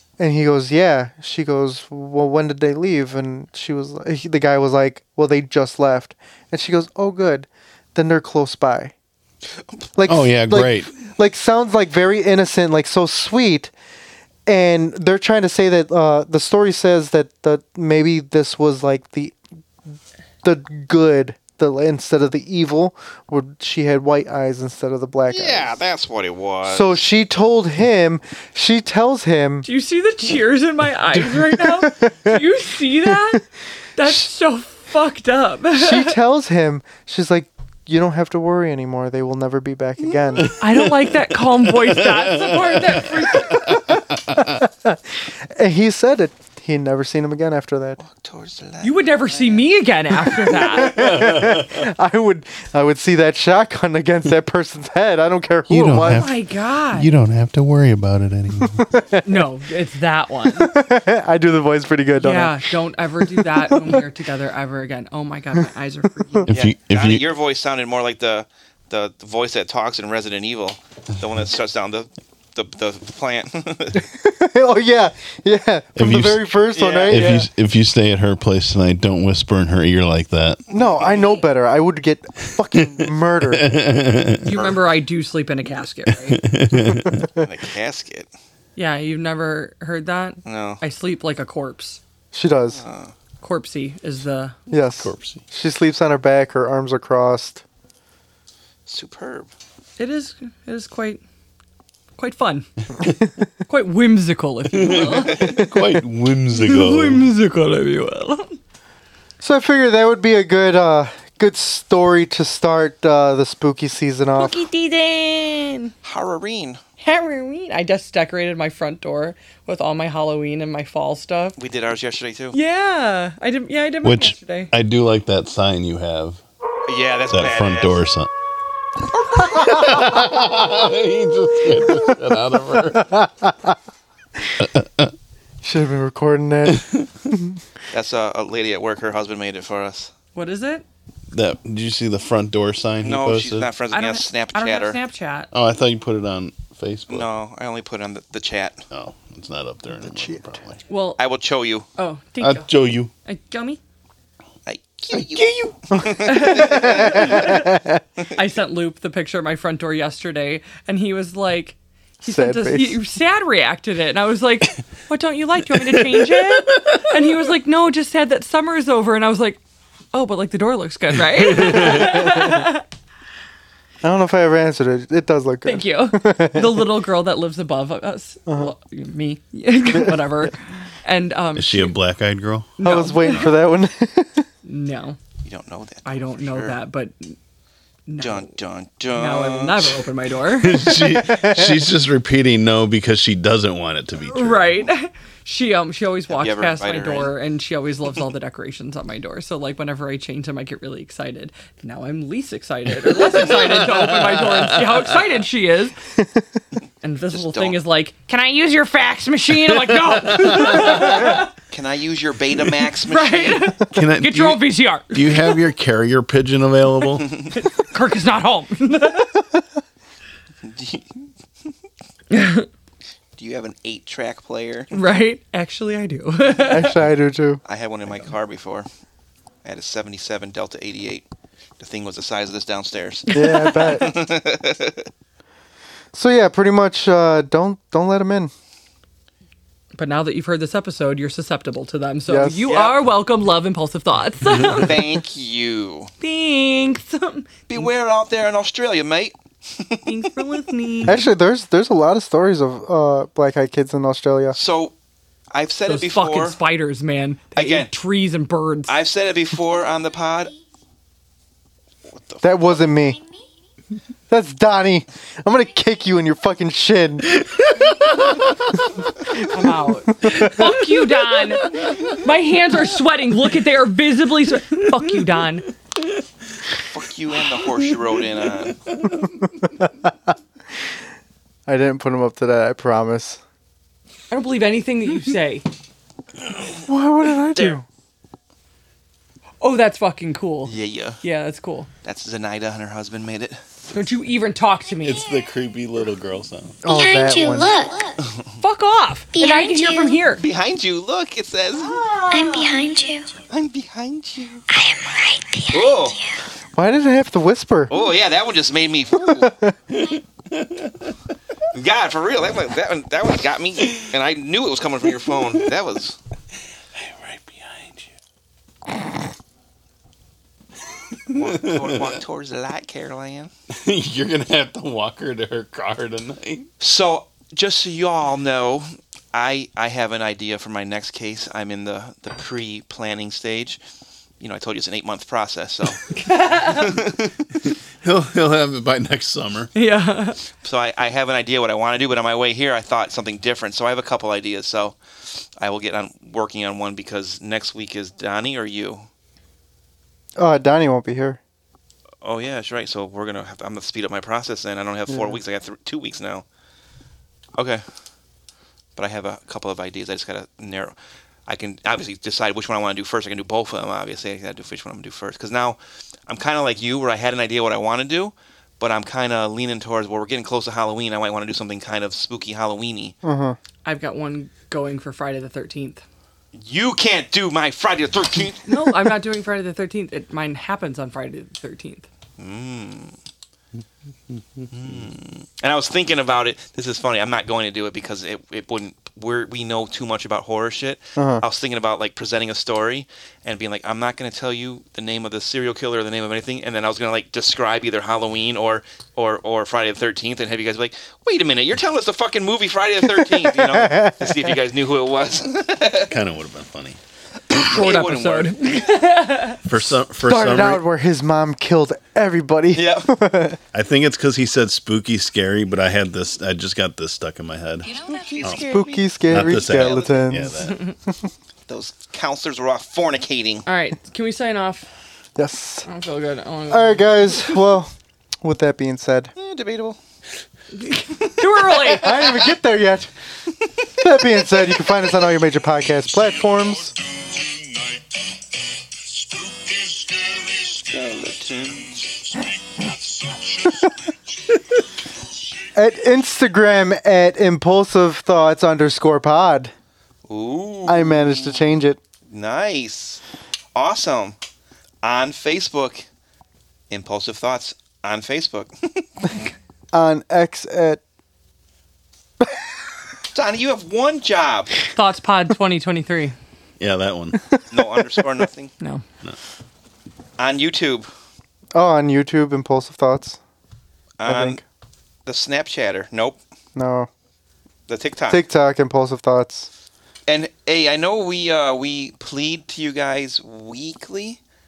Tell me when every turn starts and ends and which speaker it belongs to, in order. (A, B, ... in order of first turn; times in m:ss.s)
0:00.2-0:08.9 A
0:10.0-0:13.7 A
0:10.1-0:10.9 B
0:14.5-0:19.3 A
0:20.4-0:25.8 A
0:25.3-0:27.0 C
0:26.6-0:29.6 A
0:29.6-0:33.4 D
0:31.1-0:32.4 A
0:33.0-0:33.4 A
0:34.0-0:36.1 D
0:35.7-0:40.5 A
0:40.4-0:44.6 B
0:40.6-0:43.7 D
0:43.7-0:48.0 A
0:48.0-0:49.7 C
0:48.8-0:51.0 D
0:50.5-0:56.3 A
0:50.8-0:51.8 B
0:55.7-0:56.4 B
0:56.0-0:57.1 D
0:56.9-0:58.8 B
0:58.6-0:59.5 A
0:59.2-1:00.7 D
1:00.5-1:04.0 A
1:02.2-1:06.5 D
1:06.2-1:06.5 A
1:06.5-1:07.3 B
1:06.5-1:14.1 C
1:14.0-1:17.4 A
1:16.0-1:16.5 B
1:16.7-1:17.4 C
1:17.1-1:20.6 B
1:20.7-1:23.8 A
1:20.7-1:21.2 C
1:22.7-1:24.7 B
1:24.4-1:26.4 D
1:26.1-1:27.3 B
1:26.7-1:27.3 A
1:27.4-1:28.3 C
1:28.8-1:32.0 D
1:30.4-1:30.8 C
1:32.3-1:32.8 A
1:32.7-1:33.1 C
1:33.4-1:34.6 D
1:34.7-1:37.6 A
1:35.0-1:35.4 B
1:38.9-1:39.5 C
1:40.0-1:41.2 D
1:42.2-1:42.7 D
1:43.7-1:45.5 D
1:44.7-1:47.3 B
1:45.4-1:45.9 A
1:46.5-1:48.6 D
1:49.4-1:54.6 A
1:54.4-1:55.9 D
1:56.0-1:56.8 C
1:57.0-2:01.6 D
2:01.6-2:02.6 C
2:02.5-2:04.7 D
2:04.0-2:06.4 B
2:06.9-2:08.0 C
2:07.3-2:08.3 B
2:09.3-2:13.2 B
2:09.6-2:10.0 D
2:12.7-2:13.8 A
2:14.6-2:15.1 B
2:15.6-2:17.6 A
2:16.7-2:17.1 B
2:17.9-2:20.1 C
2:20.3-2:20.8 D
2:21.3-2:23.7 B
2:23.0-2:25.0 C
2:23.9-2:25.5 D
2:25.5-2:27.3 B
2:27.1-2:28.8 C
2:28.9-2:30.8 B
2:30.0-2:30.4 A
2:30.9-2:31.2 D
2:31.2-2:31.9 C
2:32.0-2:32.7 D
2:32.4-2:33.1 B
2:33.2-2:33.8 D
2:34.6-2:37.6 C
2:35.9-2:38.0 A
2:36.2-2:37.7 D
2:38.3-2:49.6 D
2:42.2-2:43.0 A
2:45.7-2:47.1 B
2:50.1-2:52.8 D
2:51.3-2:52.2 B
2:51.8-2:52.6 A
2:54.0-2:57.0 A
2:55.6-3:02.0 D
2:58.5-2:58.7 A
2:59.9-3:00.5 A
3:01.5-3:02.7 B
3:02.8-3:03.5 D
3:02.8-3:04.5 A
3:04.6-3:05.2 D
3:05.4-3:06.8 C
3:06.0-3:07.4 D
3:08.1-3:08.5 D
3:08.2-3:10.0 C
3:09.1-3:10.8 D
3:10.6-3:14.9 B
3:10.8-3:11.8 A
3:14.3-3:25.9 D
3:16.3-3:17.3 C
3:23.3-3:25.3 B
3:27.0-3:31.5 D
3:27.3-3:27.8 C
3:29.6-3:31.4 B
3:30.8-3:33.7 C
3:33.1-3:35.6 D
3:33.9-3:37.4 B
3:37.2-3:37.5 C
3:37.5-3:39.4 D
3:40.6-3:41.0 C
3:42.3-3:42.7 D
3:43.4-3:44.9 C
3:44.9-3:46.9 D
3:46.6-3:47.6 A
3:47.6-3:48.8 C
3:49.6-3:51.2 C
3:51.8-3:55.0 C
3:53.3-3:54.2 A
3:53.3-3:54.0 D
3:56.1-3:58.5 A
4:00.0-4:05.1 D
4:02.3-4:02.7 A
4:02.6-4:03.0 C
4:04.7-4:06.1 C
4:06.2-4:07.8 D
4:07.7-4:10.3 C
4:10.0-4:11.2 D
4:11.0-4:14.6 A
4:14.5-4:14.9 C
4:15.5-4:16.6 C
4:15.9-4:18.9 D
4:17.5-4:17.9 C
4:18.9-4:20.5 C
4:22.1-4:22.6 C
4:22.4-4:23.2 A
4:24.3-4:27.4 A
4:27.4-4:29.1 B
4:29.3-4:35.6 D
4:30.2-4:30.6 A
4:31.2-4:32.2 B
4:36.9-4:38.8 C
4:38.8-4:39.7 B
4:39.6-4:40.0 A
4:41.7-4:43.4 A
4:44.3-4:45.6 D
4:46.7-4:47.8 A
4:49.6-4:51.9 D
4:50.6-4:51.2 C
4:52.0-4:53.6 C
4:53.9-4:55.2 D
4:55.0-4:56.8 B
4:56.8-4:57.8 A
4:56.8-4:58.2 E
4:58.6-5:00.4 D
4:59.3-5:00.2 E
5:00.4-5:02.0 C
5:01.8-5:02.7 D
5:02.2-5:03.4 E
5:03.5-5:04.6 C
5:04.7-5:06.4 E
5:05.7-5:06.2 C
5:06.7-5:07.9 A
5:07.9-5:09.5 C
5:09.3-5:09.7 A
5:09.9-5:11.1 B
5:11.7-5:16.2 C
5:16.9-5:18.1 B
5:21.3-5:23.5 C
5:21.3-5:22.2 B
5:23.7-5:26.7 B
5:26.8-5:33.8 C
5:34.4-5:36.1 C
5:36.1-5:37.0 D
5:36.6-5:37.2 C
5:38.0-5:39.7 B
5:39.7-5:40.4 D
5:40.6-5:49.0 C
5:50.4-5:51.4 A
5:52.2-5:56.4 C
5:55.1-5:55.4 A
5:57.6-5:57.8 C
5:59.0-6:00.9 C
6:01.5-6:13.1 C
6:13.2-6:13.6 A
6:13.8-6:16.0 D
6:16.5-6:19.1 C
6:18.7-6:22.0 D
6:22.4-6:23.2 C
6:24.3-6:25.0 B
6:24.7-6:46.1 C
6:31.2-6:31.4 A
6:43.3-6:44.5 A
6:46.1-6:47.0 B
6:47.5-6:48.6 C
6:47.5-6:49.6 D
6:49.6-6:50.8 B
6:49.7-6:53.6 A
6:52.7-6:53.1 C
6:53.7-6:58.7 B
6:58.0-7:00.4 C
6:58.6-7:00.7 A
6:59.3-7:00.8 B
7:00.6-7:00.9 D
7:01.7-7:03.6 C
7:03.6-7:04.9 D
7:05.4-7:05.9 A
7:05.8-7:07.6 D
7:06.7-7:07.9 A
7:08.4-7:09.3 A
7:09.4-7:10.0 C
7:10.7-7:12.2 D
7:11.9-7:13.1 A
7:14.0-7:16.9 A
7:17.4-7:18.0 C
7:19.3-7:22.4 C
7:23.6-7:23.9 A
7:25.7-7:29.7 A
7:30.3-7:31.7 C
7:30.8-7:32.0 A
7:32.3-7:33.2 C
7:33.7-7:34.4 C
7:35.0-7:36.0 C
7:36.9-7:39.3 C
7:39.9-7:41.0 A
7:43.3-7:44.8 C
7:44.9-7:46.3 D
7:46.8-7:47.4 B
7:47.3-7:48.1 A
7:47.7-7:48.7 C
7:50.4-7:51.1 C
7:51.7-7:53.4 A
7:54.2-7:54.6 C
7:54.2-7:54.6 A
7:55.2-7:56.4 C
7:56.8-7:57.1 A
7:57.9-7:58.4 C
7:58.3-7:59.7 A
8:00.3-8:04.4 C